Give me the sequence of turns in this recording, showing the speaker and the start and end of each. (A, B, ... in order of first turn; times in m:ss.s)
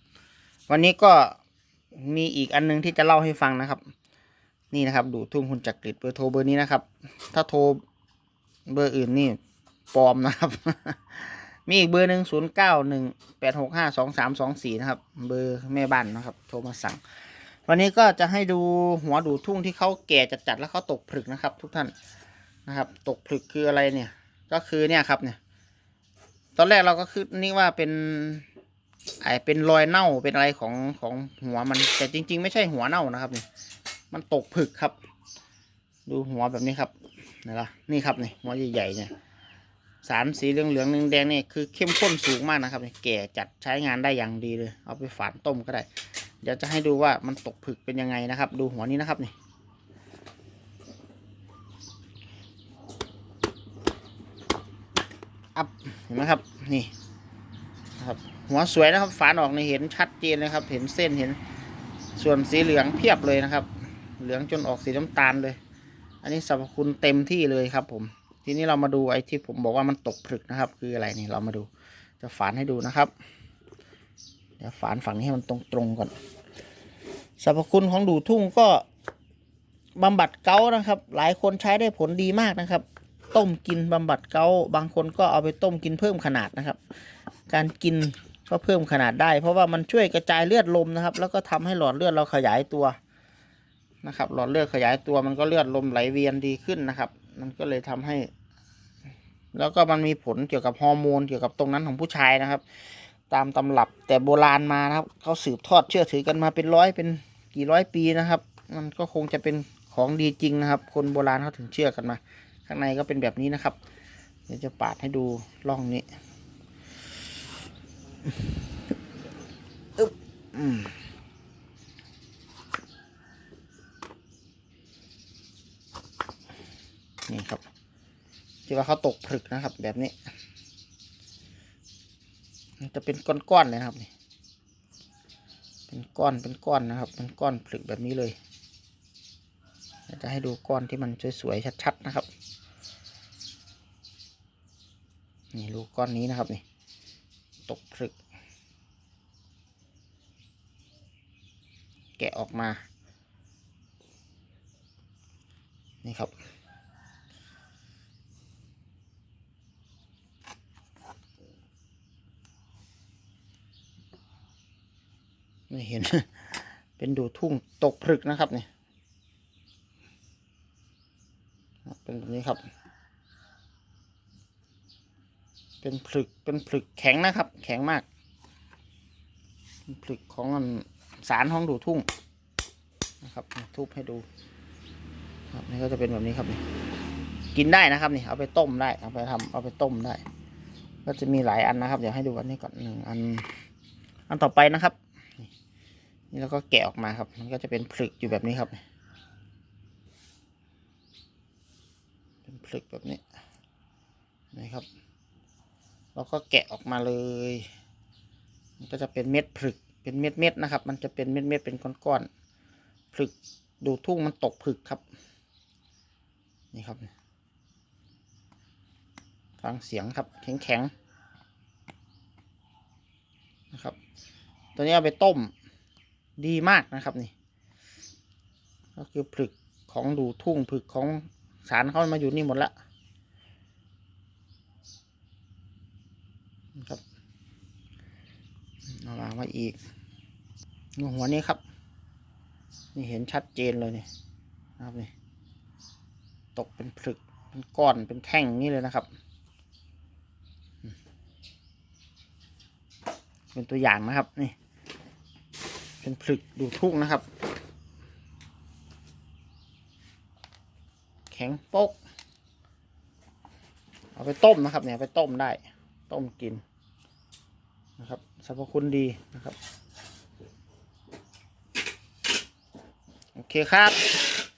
0:00.7-0:01.4 A
0:01.9-0:03.8 A
0:04.7-0:07.8 A
0:08.7-0:09.4 A
0:09.9-0:17.0 A
0:17.6-0:21.9 A
0:22.6-0:25.4 A
0:26.6-0:28.4 A
0:29.2-0:33.4 A
0:34.1-0:34.9 A
0:36.1-0:39.1 A
0:40.0-0:45.9 A
0:46.4-0:49.3 A
0:55.5-0:56.9 A
0:58.0-1:01.4 A
1:02.2-1:05.6 A
1:06.2-1:11.7 A
1:12.2-1:13.1 A
1:14.6-1:16.1 A
1:17.4-1:18.8 A
1:20.0-1:26.8 A
1:27.5-1:33.0 A
1:34.0-1:38.3 A
1:39.5-1:53.8 A
1:54.5-1:56.1 A
2:00.0-2:00.9 A
2:07.3-2:07.6 A
2:08.7-2:10.1 A
2:12.8-2:14.1 A
2:15.9-2:18.3 A
2:20.1-2:22.3 A
2:25.5-2:26.6 A
2:27.7-2:28.1 A
2:32.2-2:32.8 A
2:36.0-2:36.3 A
2:45.7-2:48.7 A
2:51.8-2:52.6 A
2:55.8-2:58.0 A
2:59.9-3:02.1 A
3:03.2-3:04.2 A
3:05.5-3:06.6 A
3:07.5-3:10.2 A
3:11.0-3:13.5 A
3:14.3-3:15.5 A
3:16.3-3:18.8 A
3:22.4-3:23.2 A
3:24.5-3:24.8 A
3:26.1-3:27.7 A
3:28.8-3:32.3 A
3:33.1-3:35.0 A
3:36.7-3:37.1 A
3:39.6-3:40.9 A
3:44.8-3:45.5 A
3:46.4-3:47.3 A
3:49.0-3:52.7 A
3:56.7-3:57.0 A
3:58.9-3:59.8 A
4:01.0-4:01.6 A
4:02.9-4:04.0 A
4:04.8-4:05.1 A
4:06.5-4:09.1 A
4:13.5-4:14.6 A
4:16.0-4:17.2 A
4:21.3-4:22.0 A
4:24.2-4:26.6 A
4:28.0-4:29.6 A
4:33.3-4:34.0 A